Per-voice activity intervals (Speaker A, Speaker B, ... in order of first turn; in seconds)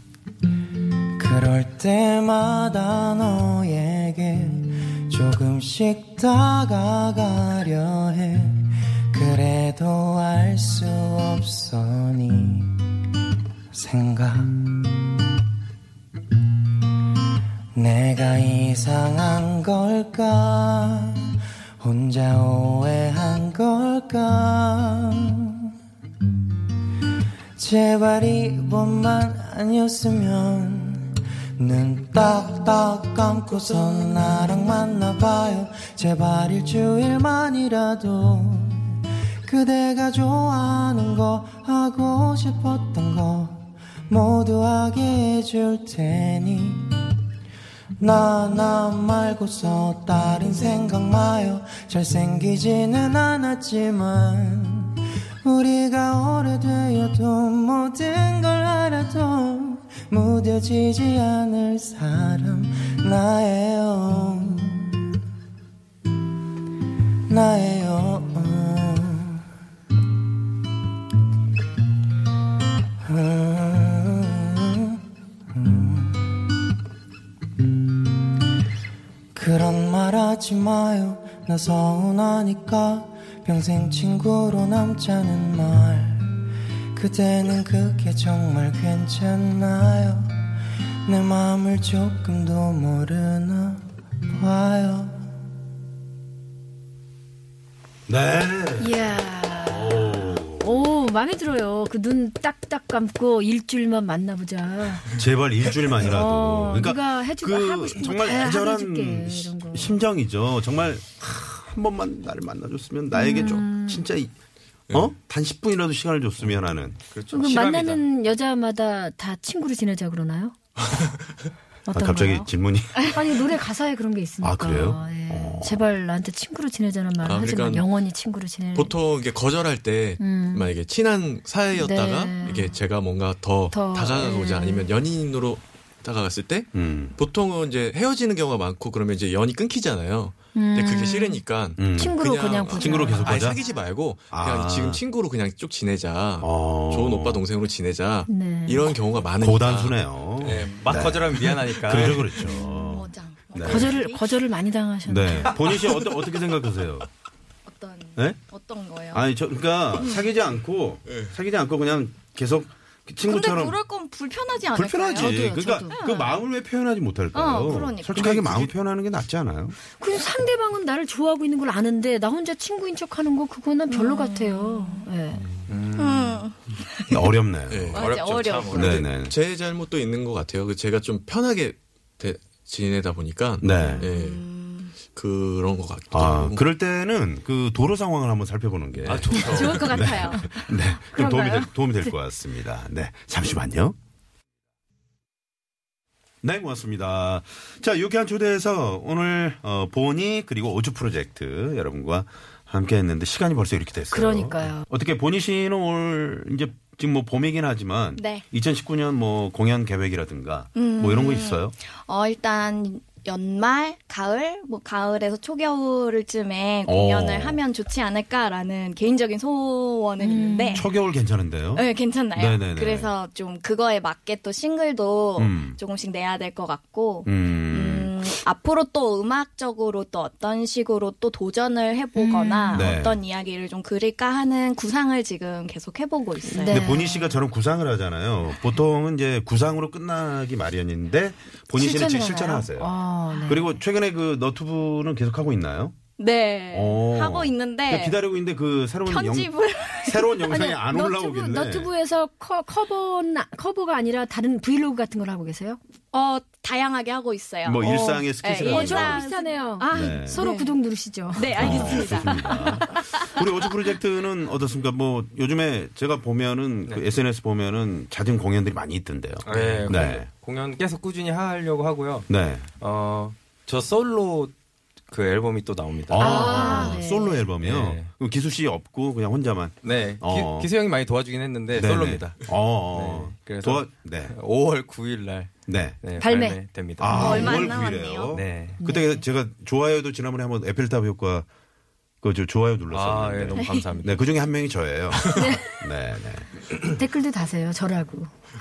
Speaker A: 1.2-12.7, 13.7-14.8, 17.7-25.7, 27.6-46.9, 48.0-65.0, 67.3-69.4, 73.0-75.0, 75.5-76.4, 79.3-86.3, 86.9-90.3, 91.0-93.8, 94.3-95.2
Speaker B: 98.1-100.9, 105.2-114.3, 114.9-117.0, 121.9-123.4, 124.4-125.8, 136.7-137.2, 141.8-142.2, 142.7-143.6, 144.3-145.0, 146.4-147.4, 149.4-153.9, 155.1-157.1, 158.2-158.4, 159.1-163.8, 164.7-169.8, 177.1-178.1, 178.8-179.3, 183.6-184.0, 186.1-193.9, 196.4-211.8, 216.8-217.6, 220.7-223.1, 225.4-225.8, 227.2-228.4, 232.7-233.2, 236.7-242.9, 243.5-246.0, 246.7-251.9, 257.6-259.2, 259.8-260.4, 261.5-270.3, 272.3-272.7, 276.1-280.7, 281.7-284.3, 285.6-286.0, 287.0-291.5, 292.2-296.5
Speaker C: 98.8-105.1, 106.0-110.0, 113.1-114.1, 117.3-120.5, 121.8-122.5, 123.0-128.9, 130.2-130.7, 131.7-132.7, 133.7-134.9, 140.5-143.6, 148.2-148.9, 152.4-153.0, 153.6-155.6, 165.2-165.5, 170.0-175.4, 189.3-192.1, 204.1-204.8, 220.2-220.8, 232.2-232.9, 236.4-237.3, 241.7-243.7, 250.9-255.8, 257.8-262.2, 276.2-277.4, 286.2-287.6, 288.8-289.2, 295.3-295.7, 296.7-298.3
Speaker D: 116.4-118.0, 150.4-152.5, 175.7-176.5, 178.0-179.0, 269.4-272.3, 272.8-274.5, 275.1-277.0, 277.6-278.1, 279.8-287.6, 288.3-288.8, 292.9-294.5
Speaker E: 127.2-127.9, 128.7-150.7, 161.1-161.3, 177.7-178.2, 178.7-184.4, 185.1-186.6, 189.0-190.1
Speaker F: 152.5-154.3, 157.7-159.2, 159.9-160.3, 163.2-166.4, 167.3-168.7, 173.9-175.1, 175.9-177.4, 177.9-179.0, 183.8-184.9, 189.4-190.4, 208.2-208.5, 210.7-220.9, 221.7-237.0, 243.3-243.6, 246.2-248.2, 249.0-250.8, 256.1-260.8, 261.3-263.9, 287.2-288.4, 293.6-293.9